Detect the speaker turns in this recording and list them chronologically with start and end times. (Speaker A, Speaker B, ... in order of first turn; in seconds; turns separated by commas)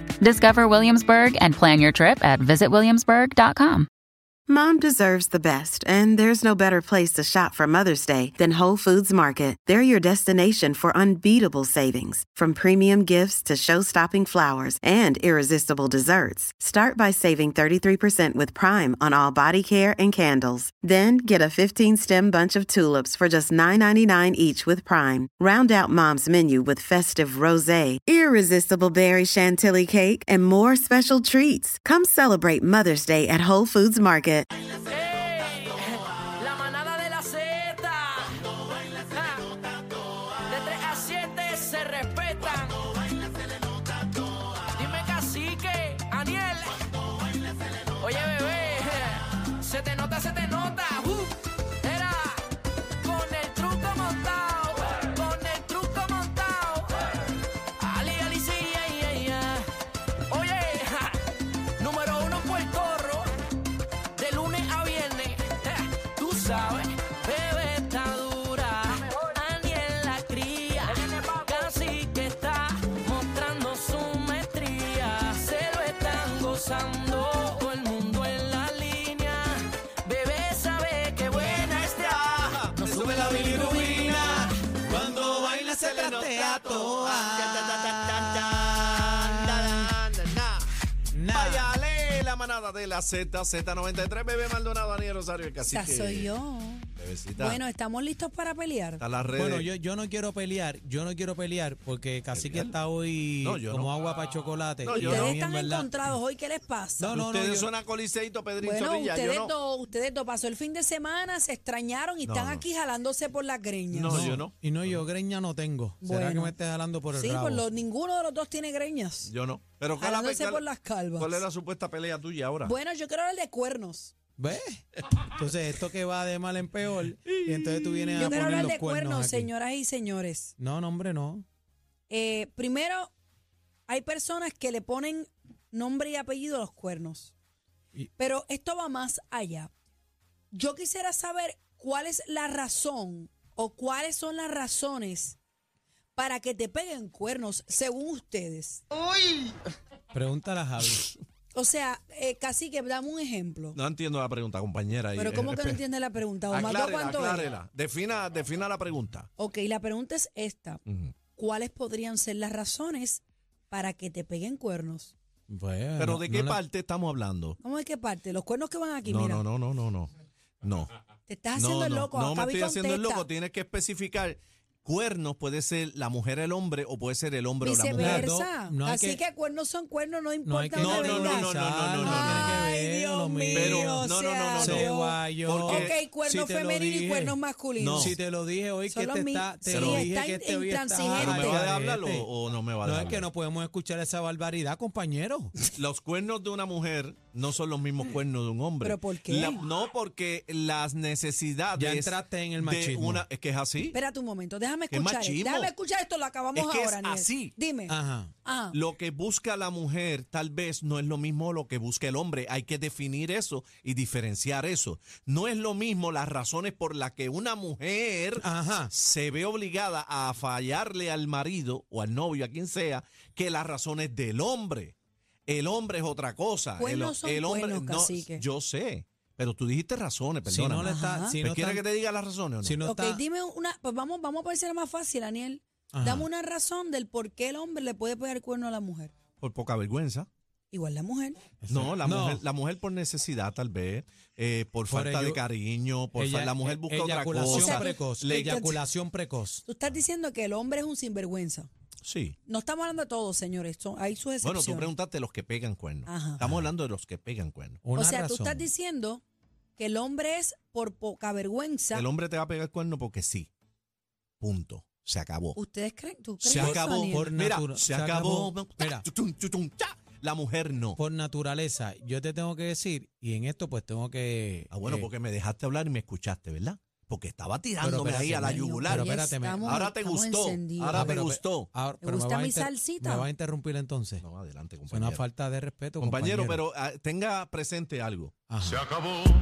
Speaker A: 0.2-3.9, Speaker B: 4.5-34.5, Speaker C: 34.9-35.9, Speaker C: 36.4-39.7, Speaker C: 40.3-47.0, Speaker C: 47.9-52.5, Speaker C: 53.0-57.0, Speaker C: 57.8-59.7, Speaker C: 60.3-61.2, Speaker C: 61.8-63.3, Speaker C: 64.2-84.5, Speaker D: 81.3-90.7, Speaker E: 83.2-89.9, Speaker E: 91.1-91.8, Speaker D: 91.3-96.3, Speaker F: 95.7-99.0, Speaker D: 97.0-97.6, Speaker D: 99.0-99.7, Speaker E: 99.4-106.0, Speaker D: 102.3-102.8, Speaker D: 103.4-104.0, Speaker D: 104.8-105.3, Speaker F: 104.9-107.2, Speaker E: 107.0-107.7, Speaker D: 107.1-109.5, Speaker F: 108.6-114.3, Speaker D: 112.2-112.7, Speaker D: 113.9-115.0, Speaker E: 114.0-117.6, Speaker F: 116.0-116.6, Speaker F: 117.1-119.3, Speaker D: 119.2-120.6, Speaker F: 120.0-121.4, Speaker D: 121.2-122.8, Speaker F: 122.6-124.1, Speaker E: 124.4-129.5, Speaker D: 127.3-128.3, Speaker F: 128.2-130.5, Speaker E: 130.6-131.5, Speaker F: 132.1-133.1, Speaker F: 133.9-137.3, Speaker F: 138.2-139.7, Speaker F: 140.5-145.4, Speaker F: 146.2-148.8, Speaker E: 150.1-151.1, Speaker F: 151.5-153.8, Speaker D: 153.8-155.8, Speaker F: 155.2-157.5, Speaker D: 156.5-159.3, Speaker F: 159.4-160.8, Speaker D: 160.9-161.2, Speaker F: 161.4-165.2, Speaker E: 165.5-166.6, Speaker D: 166.0-167.6, Speaker F: 167.6-169.4, Speaker D: 169.1-170.9, Speaker F: 171.3-173.3, Speaker D: 171.6-178.3, Speaker F: 177.6-188.2, Speaker E: 177.9-179.2, Speaker E: 180.4-187.4, Speaker D: 180.8-182.7, Speaker D: 183.5-186.0, Speaker D: 187.8-188.2, Speaker E: 187.9-192.3, Speaker F: 188.9-191.6, Speaker D: 189.7-190.1, Speaker D: 191.1-193.3, Speaker E: 192.8-195.7, Speaker D: 195.8-204.0, Speaker F: 198.8-199.7, Speaker E: 201.8-203.2, Speaker F: 203.9-208.8, Speaker D: 204.9-205.7, Speaker D: 206.5-207.6, Speaker E: 207.9-208.3, Speaker D: 208.7-224.9, Speaker E: 218.4-218.9, Speaker D: 225.5-232.8, Speaker F: 226.8-228.4, Speaker E: 230.4-231.8, Speaker F: 230.8-231.4, Speaker E: 232.6-233.2, Speaker F: 232.8-239.1, Speaker E: 235.9-236.3, Speaker D: 239.4-240.3, Speaker F: 240.7-241.4, Speaker E: 241.6-242.4, Speaker D: 241.7-248.6, Speaker E: 244.9-245.4, Speaker E: 246.2-249.6, Speaker F: 247.5-248.8, Speaker F: 249.7-251.7, Speaker D: 252.0-252.4, Speaker F: 252.5-254.9, Speaker D: 254.4-257.8, Speaker F: 256.1-256.4, Speaker E: 257.8-258.7, Speaker F: 257.9-259.2, Speaker F: 259.8-262.1, Speaker D: 261.9-263.5, Speaker D: 264.4-265.6, Speaker F: 265.6-267.3, Speaker D: 266.4-271.0, Speaker E: 266.5-269.1, Speaker E: 271.0-275.1, Speaker D: 274.7-281.7, Speaker E: 277.8-279.9, Speaker F: 278.5-281.2, Speaker E: 280.9-284.2, Speaker F: 282.0-283.3, Speaker D: 284.2-285.2, Speaker E: 284.9-286.6, Speaker D: 286.0-288.3, Speaker E: 288.5-288.9